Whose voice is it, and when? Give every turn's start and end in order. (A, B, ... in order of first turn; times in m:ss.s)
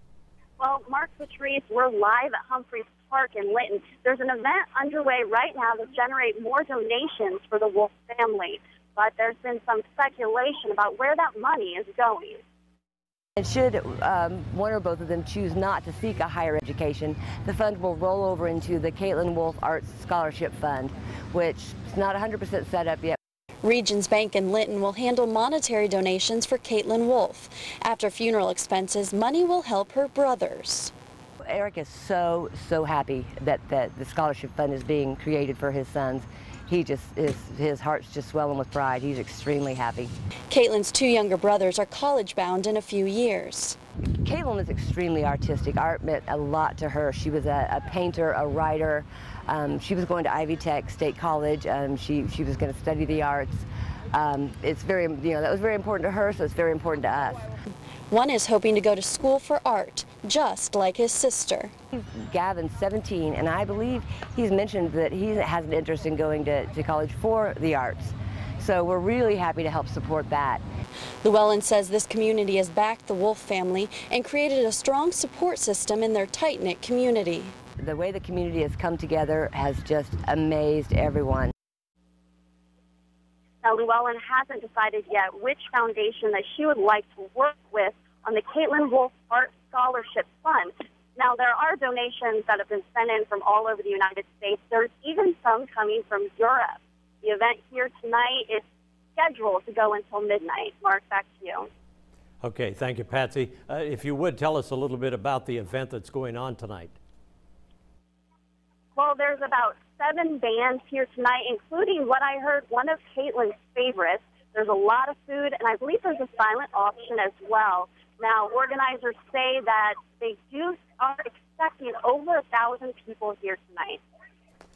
0:00.6-0:12.4 A
0:13.4-0:23.2 B
0:23.6-0:30.9 C
0:31.4-0:40.1 B
0:40.5-0:43.8 C
0:44.2-0:57.4 B
0:58.1-1:01.7 C
1:01.9-1:10.6 B
1:11.2-1:17.5 C
1:17.8-1:21.5 B
1:23.6-1:38.6 A
1:39.2-1:41.7 A
1:42.4-1:47.0 D
1:49.0-2:04.0 A